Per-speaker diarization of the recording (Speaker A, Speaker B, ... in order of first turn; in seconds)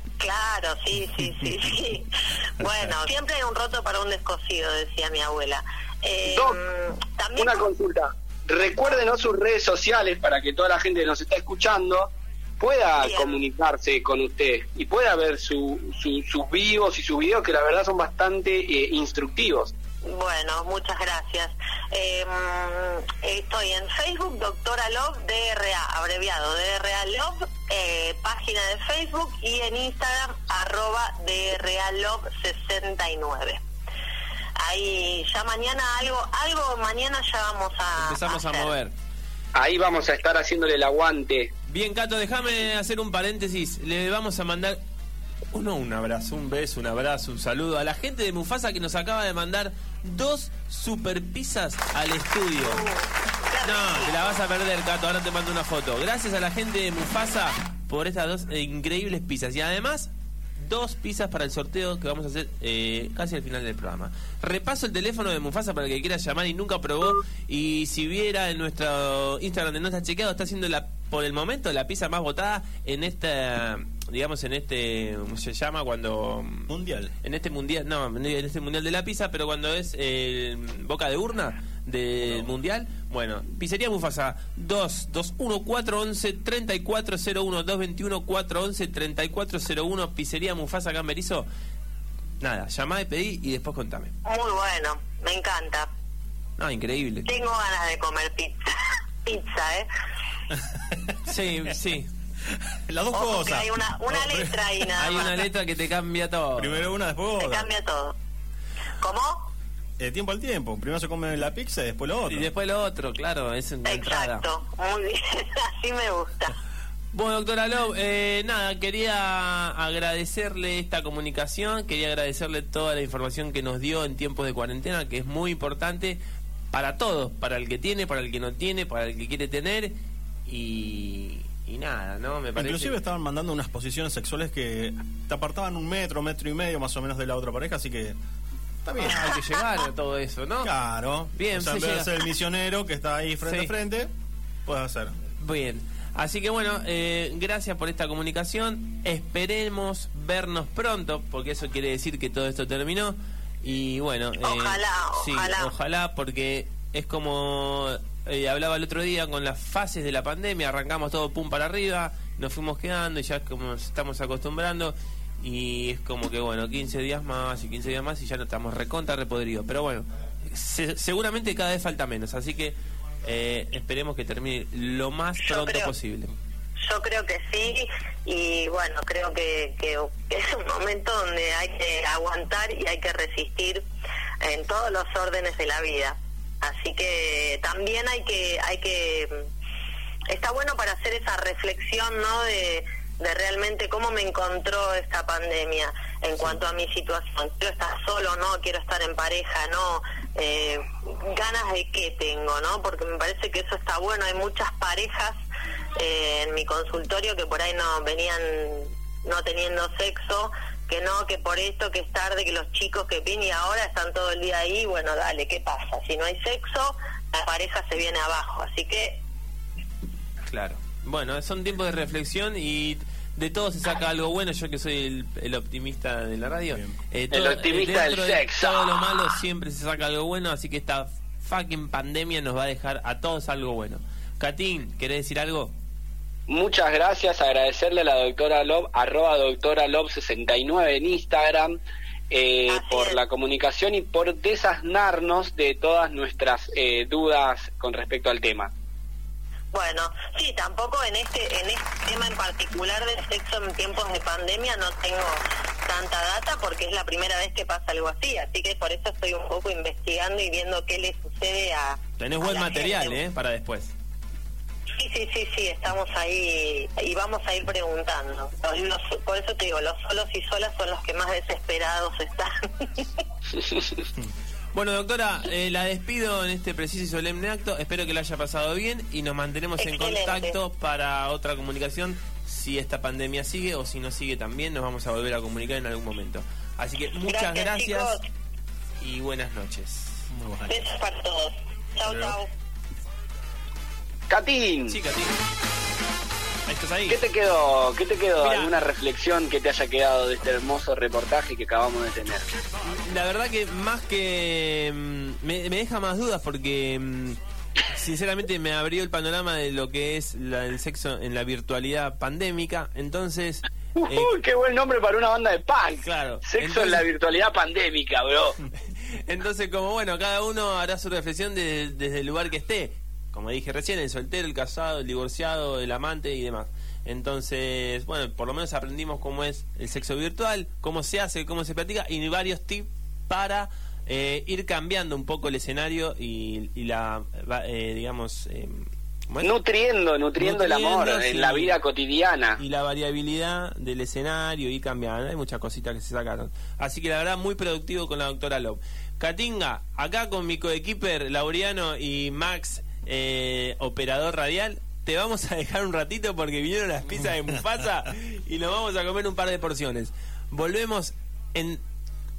Speaker A: 0.2-7.7, 13.0-13.4, 20.0-33.6, 34.6-38.7, 52.6-54.4, 94.2-95.9, 97.3-98.7, 99.2-99.9, 103.1-105.4, 107.4-108.1, 109.0-109.4, 113.8-116.5, 154.4-155.7, 175.4-175.9, 176.9-183.8, 184.4-189.4, 190.3-205.3, 206.0-219.2, 242.7-243.2, 249.7-263.2, 265.0-273.1, 279.8-280.6, 287.3-288.2, 290.7-292.5
Speaker B: 1.2-1.5, 76.7-77.1, 100.7-101.0, 102.5-104.7, 106.5-107.7, 110.0-112.5, 132.6-138.2, 138.8-139.4, 140.6-144.1, 144.7-145.1, 226.7-226.9, 290.3-290.9
Speaker C: 6.3-6.6, 7.4-19.7, 39.5-41.5, 227.3-229.2, 236.5-241.7, 242.3-248.7, 294.3-294.9, 297.1-302.4, 314.0-318.6, 339.4-342.6
Speaker D: 38.0-38.9, 41.7-44.8, 45.5-52.8, 53.6-76.7, 77.2-91.5, 92.4-94.1, 96.6-97.3, 101.2-102.1, 104.9-106.9, 112.3-114.4, 117.1-126.2, 126.7-129.9, 130.4-133.0, 139.0-140.7, 141.3-142.1, 143.4-143.7, 145.4-176.3, 220.4-235.7, 262.2-263.9, 274.7-288.2, 289.0-290.3, 292.1-292.3, 294.9-295.4, 296.7-297.2, 298.4-298.7, 302.8-314.3, 316.0-317.1, 318.9-339.5, 340.4-341.8, 342.6-361.8